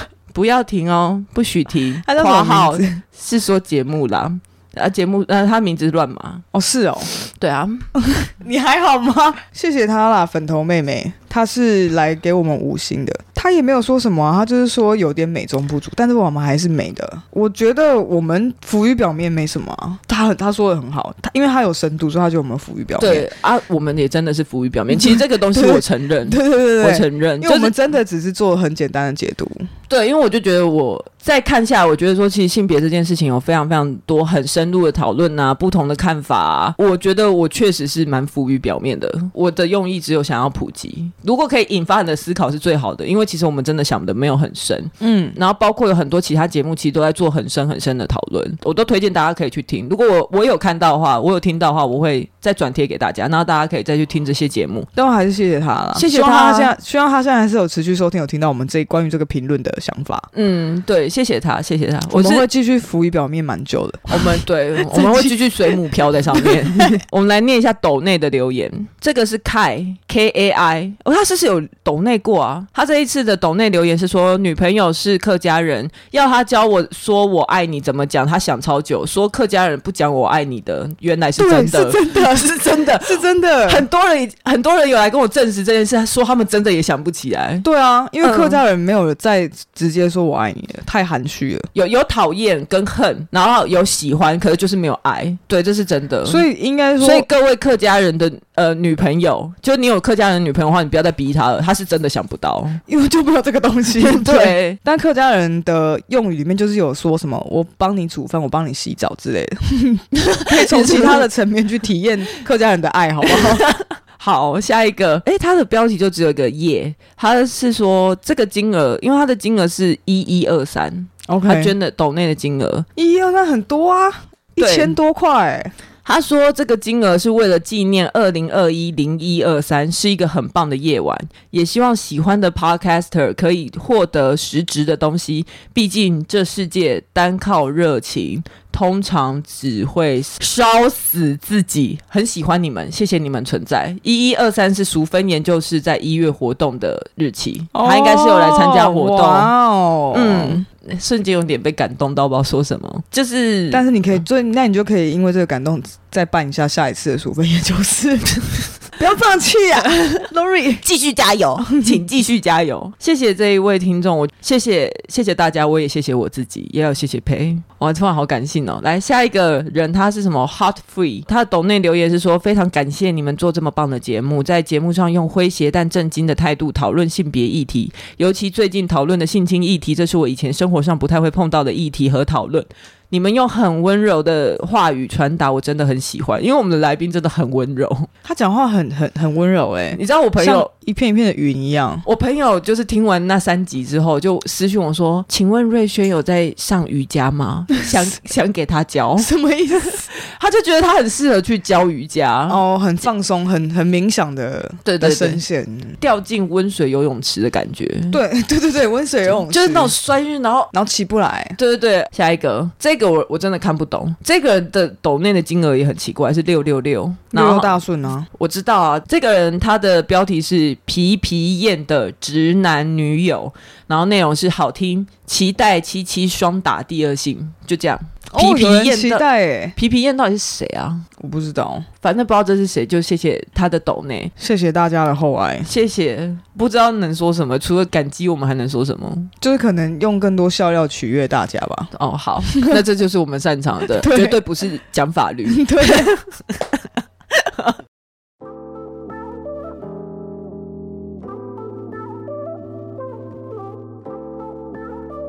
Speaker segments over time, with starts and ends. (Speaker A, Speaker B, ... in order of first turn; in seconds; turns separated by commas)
Speaker A: 0.3-6.4, Speaker B: 2.0-3.0, Speaker B: 6.5-7.1, Speaker A: 7.2-7.9, Speaker B: 8.0-23.3, Speaker A: 23.0-27.7, Speaker B: 24.9-29.7, Speaker A: 29.9-54.9, Speaker B: 45.0-45.4, Speaker B: 54.9-60.3, Speaker A: 55.9-56.7, Speaker A: 60.3-62.5, Speaker B: 62.1-65.8, Speaker A: 64.1-87.6, Speaker B: 66.3-67.0, Speaker B: 81.4-83.8, Speaker B: 87.6-91.7, Speaker A: 88.2-88.6, Speaker A: 91.7-96.4, Speaker B: 96.2-97.3, Speaker A: 97.0-102.8, Speaker B: 102.9-113.7, Speaker A: 104.0-104.8, Speaker A: 110.1-111.3, Speaker A: 113.2-122.8, Speaker B: 121.3-121.7, Speaker B: 123.0-125.7, Speaker A: 124.6-124.9, Speaker A: 126.0-149.5, Speaker B: 147.7-150.6, Speaker A: 150.1-153.8, Speaker B: 153.7-160.8, Speaker A: 160.8-188.1, Speaker B: 161.6-162.0, Speaker B: 188.2-192.0, Speaker A: 189.9-190.7, Speaker A: 192.0-199.3, Speaker B: 199.2-200.1, Speaker A: 200.0-202.6, Speaker B: 202.5-205.9, Speaker A: 204.8-205.4, Speaker A: 206.0-208.2, Speaker B: 208.1-209.9, Speaker A: 209.3-210.7, Speaker B: 210.7-211.6, Speaker A: 211.6-217.8, Speaker B: 217.3-218.3, Speaker A: 218.3-229.2, Speaker B: 228.3-229.8, Speaker A: 229.8-231.0, Speaker B: 231.2-231.9, Speaker A: 232.0-234.3, Speaker B: 234.4-235.7, Speaker A: 235.7-239.3, Speaker B: 239.4-241.9, Speaker A: 241.9-246.7, Speaker B: 242.5-242.8, Speaker B: 243.9-244.4, Speaker B: 245.5-246.1, Speaker A: 247.3-247.7